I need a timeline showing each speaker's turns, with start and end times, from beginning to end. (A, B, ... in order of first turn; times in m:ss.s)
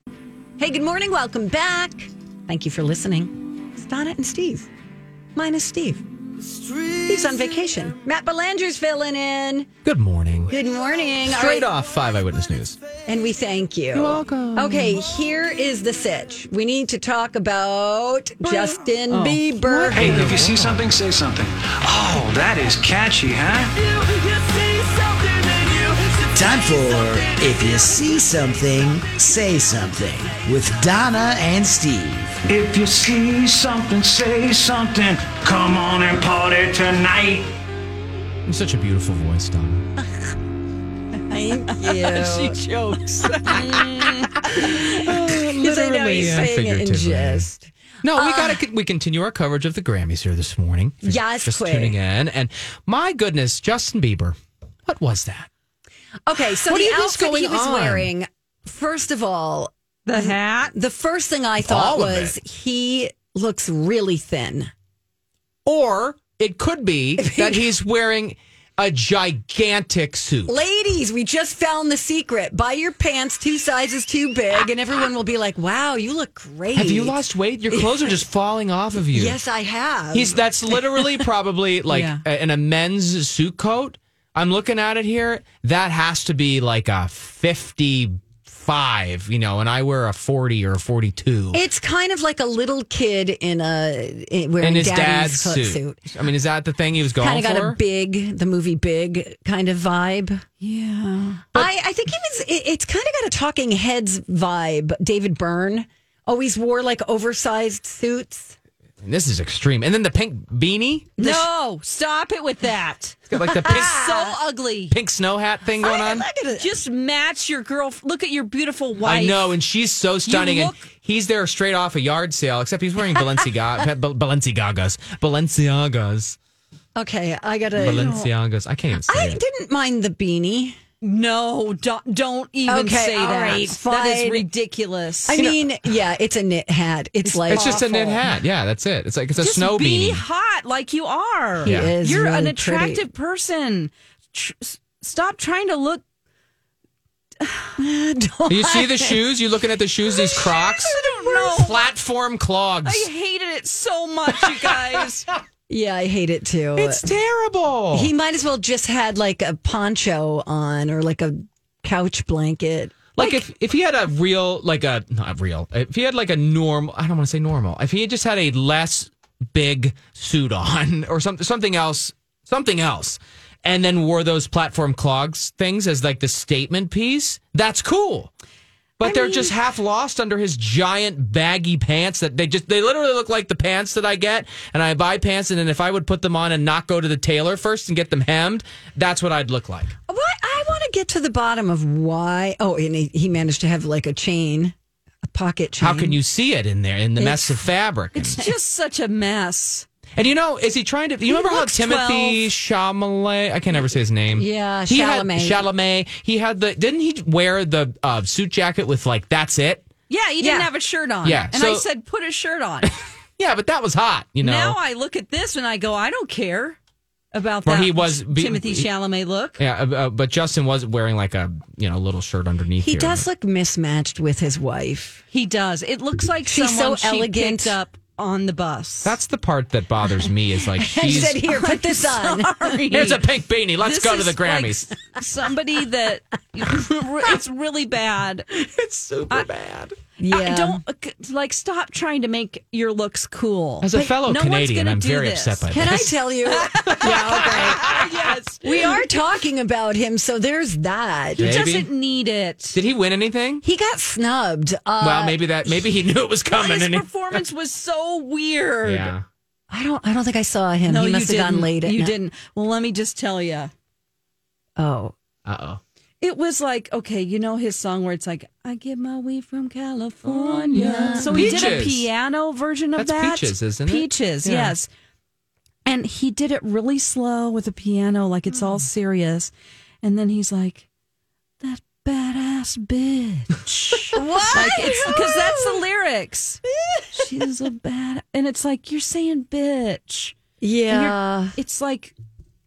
0:00.6-0:04.7 A
0:05.4-0:06.0 A
0:06.9-0:09.7 A
0:09.8-0:10.5 B
0:10.5-0:11.7 A
0:11.2-0:12.8 B
0:13.1-0:20.3 A
0:13.9-0:15.0 B
0:18.4-0:19.4 C
0:19.6-0:20.8 B
0:19.9-0:23.9 D
0:25.3-0:26.1 D
0:26.3-0:32.4 E
0:32.5-0:37.5 D
0:38.5-0:39.9 B
0:41.3-0:42.6 A
0:41.7-0:45.0 C
0:43.5-0:48.6 A
0:43.5-0:47.5 B
0:48.0-0:55.5 B
0:51.0-0:52.0 A
0:56.3-1:04.7 A
0:56.4-0:58.1 B
1:00.1-1:00.7 C
1:01.6-1:02.4 B
1:05.6-1:10.6 B
1:07.2-1:07.7 A
1:10.5-1:17.2 A
1:16.7-1:19.4 B
1:17.7-1:18.2 A
1:19.1-1:21.1 A
1:20.1-1:31.6 B
1:21.9-1:22.2 C
1:31.5-1:36.0 A
1:34.6-1:37.8 B
1:37.2-1:40.4 A
1:40.6-1:41.5 C
1:41.5-1:48.6 A
1:49.0-1:51.1 B
1:51.2-1:51.5 A
1:51.2-1:55.0 C
1:53.3-1:54.3 B
1:53.4-1:54.3 A
1:54.9-1:56.3 B
1:55.8-1:56.7 A
1:56.6-1:59.4 C
1:59.0-2:06.4 B
2:00.2-2:00.8 C
2:07.0-2:08.2 A
2:07.8-2:09.4 B
2:07.8-2:08.3 C
2:09.1-2:10.8 A
2:11.0-2:15.4 C
2:12.7-2:14.5 A
2:15.3-2:18.2 A
2:15.3-2:15.9 B
2:17.2-2:18.1 C
2:17.5-2:20.2 B
2:19.4-2:26.0 C
2:21.6-2:23.0 A
2:21.6-2:22.0 B
2:27.4-2:27.7 C
2:27.8-2:29.2 A
2:28.5-2:33.1 B
2:30.2-2:31.5 A
2:30.4-2:31.9 C
2:32.8-2:35.3 C
2:34.4-2:35.0 B
2:35.7-2:37.0 A
2:36.8-2:38.1 B
2:37.9-2:43.2 A
2:43.1-2:58.3 B
2:59.0-3:09.9 B
3:10.1-3:16.2 A
3:15.8-3:18.4 B
3:17.2-3:17.6 A
3:18.1-3:19.9 C
3:20.1-3:29.9 B
3:21.3-3:22.5 C
3:24.3-3:25.6 A
3:30.1-3:32.9 C
3:30.4-3:30.7 A
3:31.2-3:31.9 B
3:32.8-3:34.8 B
3:34.4-3:36.8 C
3:37.3-3:39.6 C
3:37.6-3:38.9 B
3:39.6-3:43.3 B
3:42.8-3:45.2 A
3:45.3-3:49.2 C
3:46.4-3:47.8 A
3:49.0-3:51.4 B
3:50.7-3:52.8 A
3:51.1-3:53.2 C
3:52.9-3:54.9 B
3:53.8-3:58.4 C
3:58.5-4:00.0 B
4:00.2-4:00.8 A
4:00.2-4:09.0 C
4:03.8-4:06.2 B
4:05.7-4:08.0 A
4:07.0-4:08.1 B
4:08.6-4:11.6 A
4:11.4-4:12.8 C
4:11.4-4:11.9 B
4:12.7-4:13.6 B
4:13.6-4:15.8 A
4:15.0-4:17.4 B
4:16.5-4:19.1 C
4:18.8-4:19.2 B
4:19.7-4:22.1 A
4:20.8-4:23.7 C
4:24.8-4:25.1 A
4:25.4-4:25.8 B
4:26.2-4:34.9 C
4:30.2-4:32.1 B
4:30.7-4:31.8 A
4:33.0-4:34.7 B
4:35.9-4:39.5 C
4:40.0-4:40.9 C
4:41.6-4:46.6 C
4:44.1-4:45.8 A
4:46.8-4:47.3 A
4:47.1-4:50.4 C
4:50.6-4:51.6 A
4:50.9-4:52.1 C